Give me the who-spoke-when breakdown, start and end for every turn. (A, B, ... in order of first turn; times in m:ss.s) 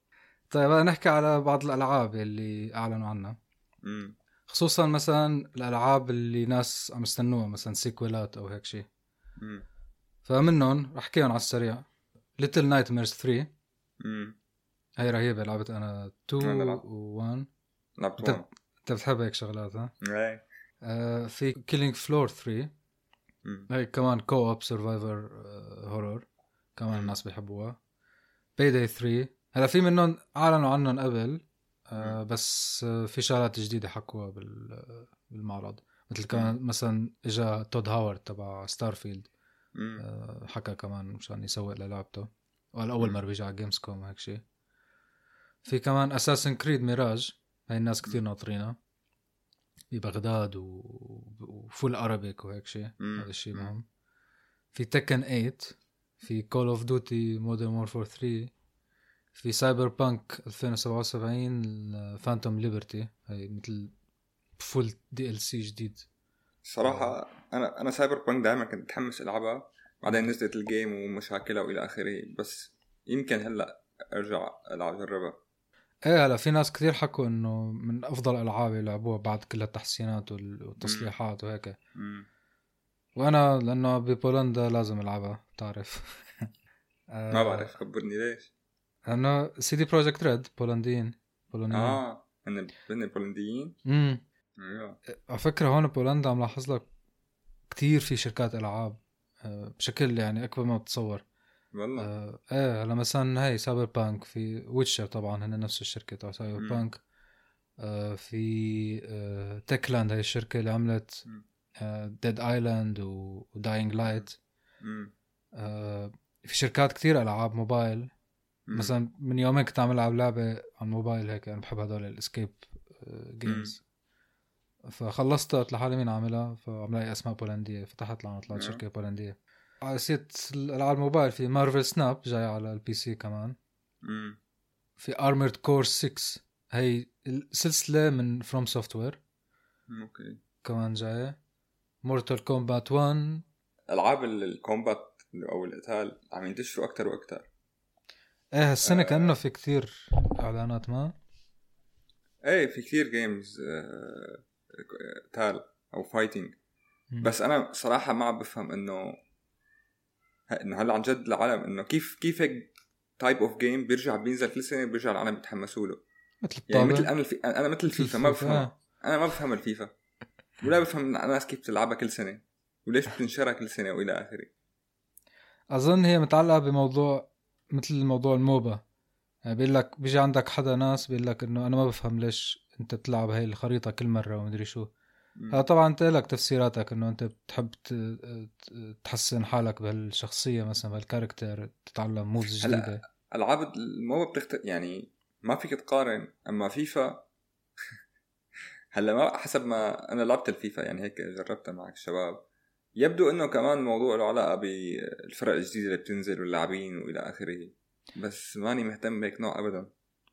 0:00.5-0:03.4 A
0:03.8-0:04.2 B
0:04.5-0:08.9 A
0:09.4-0:09.6 B
0:10.2-0:11.8 A
0:12.4-0:13.5 A
0:14.0-0:14.4 B
0:15.0-0:17.5 A
0:16.4-0:16.8 B
0:18.0-0:18.5 B
0:18.2-0:19.9 A
0:20.0-0:20.4 B
0:20.8-0:22.7 A
0:23.4-0:23.7 B
0:23.7-0:27.8 A
0:28.6-0:39.3 A
0:39.8-0:40.0 B
0:40.0-0:44.4 A
0:45.6-0:48.8 A
0:49.9-0:53.9 A
0:53.0-0:53.7 B
0:54.7-0:58.5 A
0:59.4-1:03.9 A
1:04.6-1:06.0 A
1:06.6-1:15.4 B
1:06.8-1:07.1 A
1:16.1-1:21.8 A
1:20.8-1:21.1 B
1:22.0-1:22.3 B
1:23.2-1:26.5 A
1:27.1-1:27.7 A
1:27.3-1:28.5 B
1:29.1-1:32.0 A
1:31.7-1:33.8 B
1:33.9-1:34.2 A
1:34.6-1:35.0 B
1:35.1-1:36.8 A
1:37.7-1:41.2 A
1:41.7-1:42.1 B
1:42.0-1:47.0 A
1:46.6-1:46.8 B
1:47.8-1:51.2 A
1:51.8-1:54.4 A
1:54.8-1:55.1 B
1:55.6-1:58.1 A
1:58.7-1:58.9 B
1:58.7-2:03.8 A
2:03.5-2:03.7 B
2:04.9-2:13.6 A
2:08.5-2:08.8 B
2:14.0-2:14.4 B
2:15.0-2:19.2 A
2:19.9-2:20.4 B
2:20.6-2:21.4 A
2:22.0-2:23.4 A
2:23.9-2:27.5 B
2:28.6-2:31.1 A
2:28.8-2:29.4 B
2:32.4-2:36.6 B
2:37.2-2:39.2 B
2:40.5-2:46.0 B
2:46.4-2:47.1 A
2:46.7-2:49.9 B
2:47.9-2:48.7 A
2:50.6-2:54.5 B
2:55.7-2:58.8 A
2:59.5-3:04.9 A
3:05.4-3:05.6 B
3:05.5-3:13.0 A
3:12.6-3:17.2 B
3:18.9-3:22.4 B
3:23.0-3:29.9 B